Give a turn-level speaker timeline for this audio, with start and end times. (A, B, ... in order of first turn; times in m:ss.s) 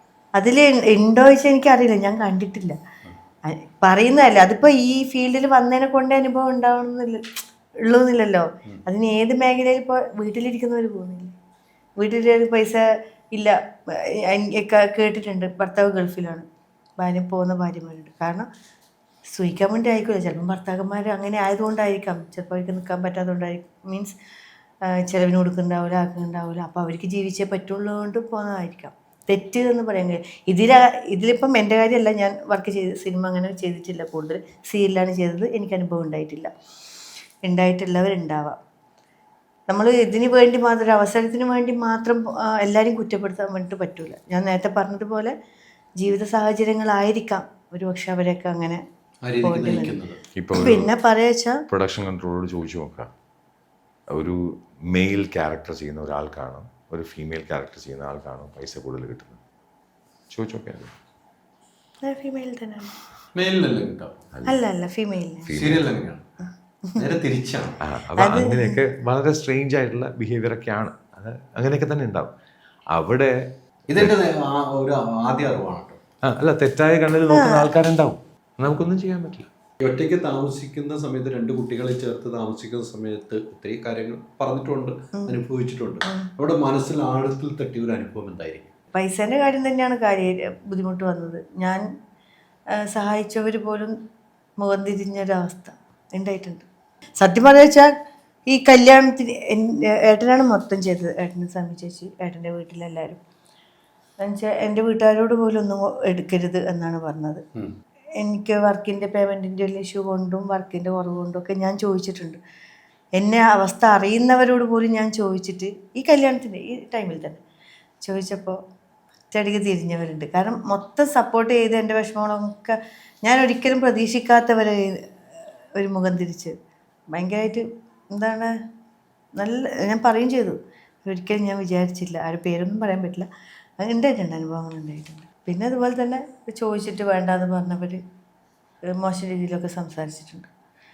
0:00.4-0:02.7 A
0:03.8-0:07.2 A
0:07.8-0:11.3 A
0:12.0-0:13.5 A
0:14.2-0:16.4 A
0:17.0-0:18.4 A
0:19.3-0:24.1 A
0:25.0-0:36.5 A
0:37.4-0:38.6 A
0:39.7-0:45.3 A
0:46.0-0:48.8 A
0:49.2-0:50.2 B
0:49.4-0:49.9 A
0:50.4-0:50.9 C
0:50.5-0:51.6 A
0:51.7-0:53.1 C
0:54.1-0:59.4 C
1:00.3-1:00.9 C
1:02.0-1:02.9 A
1:03.3-1:04.3 B
1:04.3-1:04.6 C
1:04.4-1:05.6 A
1:05.4-1:05.9 C
1:05.5-1:06.3 B
1:07.0-1:07.8 B
1:07.8-1:12.3 C
1:08.2-1:08.8 A
1:12.9-1:13.3 C
1:13.9-1:16.0 B
1:16.2-1:19.5 C
1:17.3-1:17.6 A
1:19.8-1:28.7 B
1:28.9-1:31.8 A
1:32.9-1:33.9 A
1:34.6-1:36.6 A
1:37.2-1:37.9 A
1:38.5-1:43.2 A
1:44.2-1:47.4 A
1:48.2-1:52.4 A
1:53.2-1:57.4 A
1:58.0-1:58.6 A
1:59.3-2:05.0 A
2:05.8-2:06.5 A
2:07.1-2:08.5 A
2:09.4-2:13.2 A
2:13.8-2:18.0 A
2:19.0-2:20.5 A